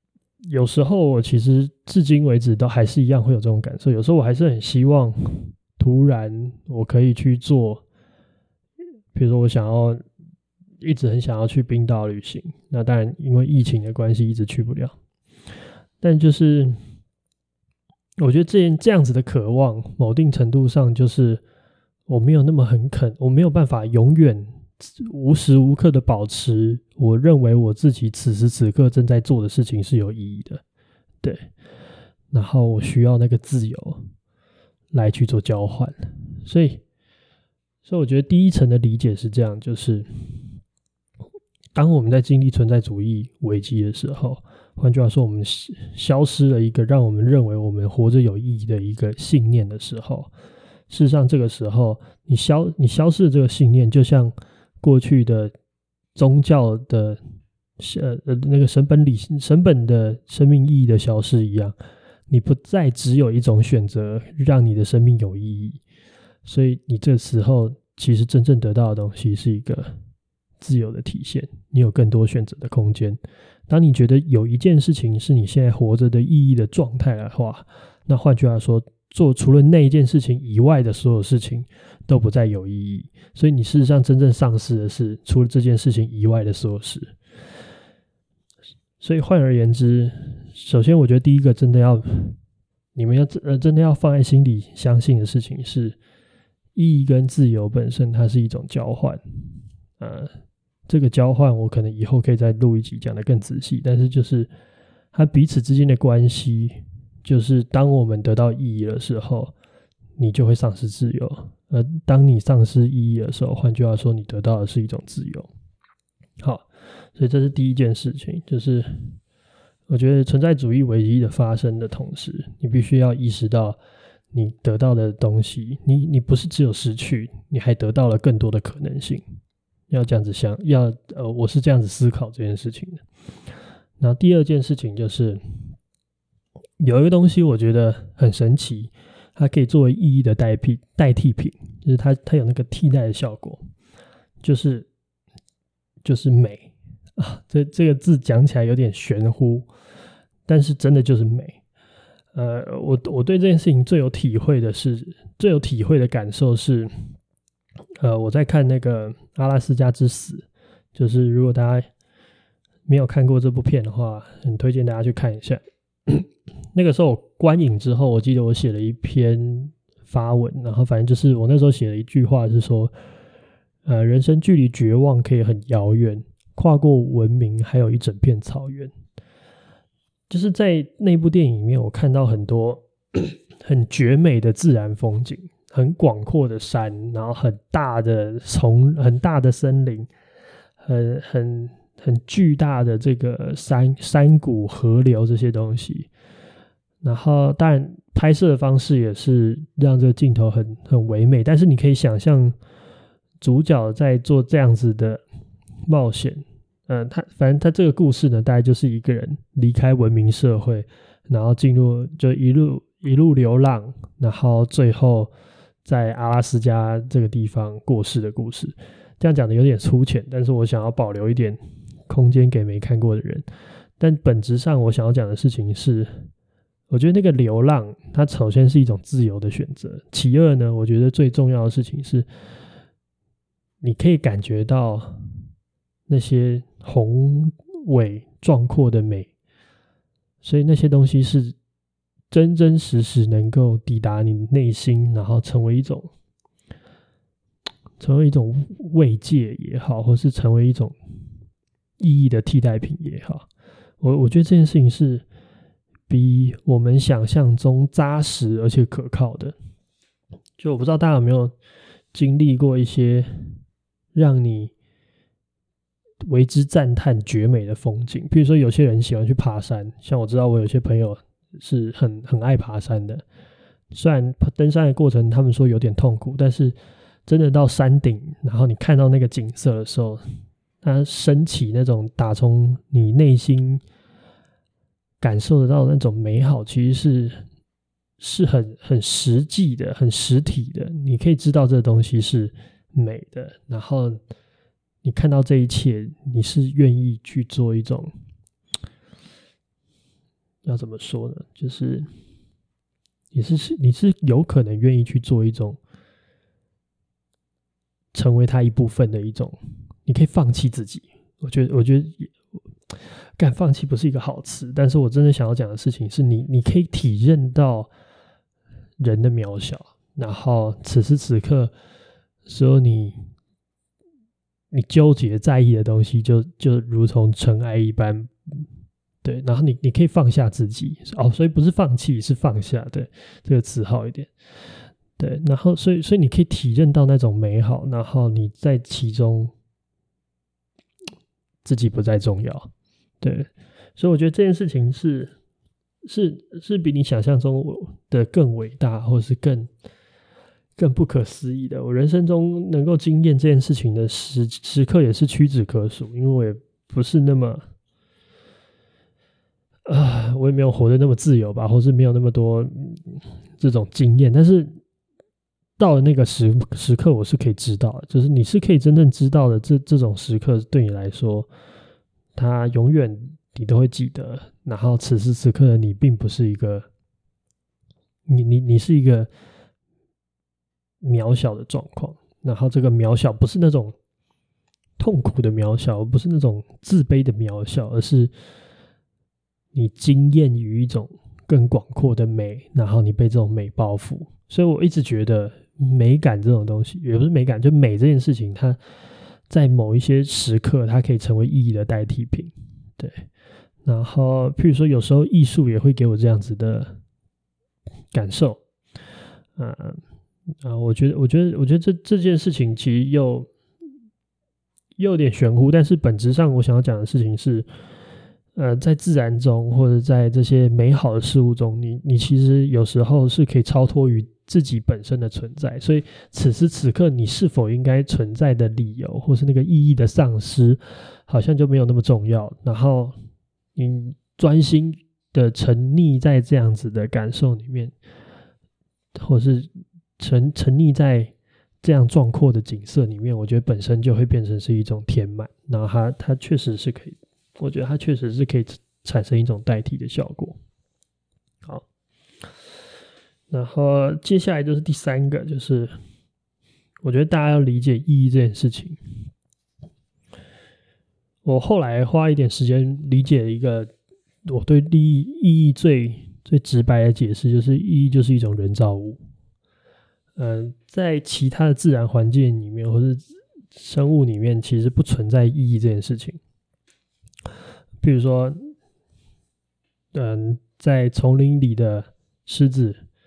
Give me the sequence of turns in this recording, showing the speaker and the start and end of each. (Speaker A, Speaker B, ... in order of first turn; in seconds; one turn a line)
Speaker A: 0.4-7.8
Speaker A: 9.1-10.0
Speaker A: 10.8-14.9
Speaker A: 16.0-16.8
Speaker A: 18.2-21.4
Speaker A: 22.1-30.6
Speaker A: 31.2-31.5
Speaker A: 32.3-34.0
Speaker A: 34.9-36.8
Speaker A: 37.8-40.5
Speaker A: 41.7-50.3
Speaker A: 50.9-55.5
Speaker A: 56.1-57.2
Speaker A: 57.8-61.7
Speaker A: 62.3-65.8
Speaker A: 66.5-70.0
Speaker A: 70.6-87.1
Speaker A: 89.0-92.4
Speaker A: 93.0-96.0
Speaker A: 96.7-99.2
Speaker A: 100.0-100.3
Speaker A: 100.9-104.5
Speaker A: 105.1-109.5
Speaker A: 110.2-115.5
Speaker A: 116.4-119.2
Speaker A: 119.9-123.8
Speaker A: 124.3-129.3
Speaker A: 129.9-133.0
Speaker A: 134.0-135.4
Speaker A: 136.8-143.6
Speaker A: 144.4-144.9
Speaker A: 146.0-149.7
Speaker A: 150.5-151.6
Speaker A: 152.3-156.9
Speaker A: 158.0-161.9
Speaker A: 162.9-172.9
Speaker A: 173.8-178.9
Speaker A: 180.3-190.1
Speaker A: 190.8-196.1
Speaker A: 197.0-202.6
Speaker A: 203.4-205.2
Speaker A: 205.9-215.3
Speaker A: 215.8-223.4
Speaker A: 224.0-226.3
Speaker A: 226.9-232.2
Speaker A: 233.8-235.3
Speaker A: 236.1-239.3
Speaker A: 240.4-241.5
Speaker A: 242.3-246.1
Speaker A: 248.0-250.9
Speaker A: 252.0-253.4
Speaker A: 254.0-255.2
Speaker A: 256.1-259.5
Speaker A: 260.6-261.5
Speaker A: 262.1-263.6
Speaker A: 264.1-264.7
Speaker A: 266.3-273.2
Speaker A: 273.9-276.7
Speaker A: 277.3-280.2
Speaker A: 280.8-283.8
Speaker A: 285.2-287.4
Speaker A: 288.2-294.2
Speaker A: 295.0-298.1
Speaker A: 300.6-302.1
Speaker A: 303.3-305.8
Speaker A: 308.1-312.3
Speaker A: 312.9-317.9
Speaker A: 319.0-321.7
Speaker A: 322.5-323.2
Speaker A: 324.7-328.6
Speaker A: 329.2-334.3
Speaker A: 335.2-339.5
Speaker A: 341.6-342.7
Speaker A: 343.2-345.3
Speaker A: 346.1-349.7
Speaker A: 350.8-357.6
Speaker A: 359.9-364.8
Speaker A: 365.8-371.5
Speaker A: 372.4-376.9
Speaker A: 378.3-379.3
Speaker A: 381.0-383.9
Speaker A: 385.0-388.3
Speaker A: 389.7-398.8
Speaker A: 399.5-403.2
Speaker A: 403.8-407.0
Speaker A: 408.1-408.6
Speaker A: 409.6-410.0
Speaker A: 410.6-413.5
Speaker A: 415.0-417.7
Speaker A: 418.6-433.1
Speaker A: 433.8-437.9
Speaker A: 439.2-450.6
Speaker A: 453.5-455.9
Speaker A: 457.0-459.0
Speaker A: 461.4-463.9
Speaker A: 464.5-469.2
Speaker A: 470.4-476.4
Speaker A: 478.0-478.7
Speaker A: 480.1-483.0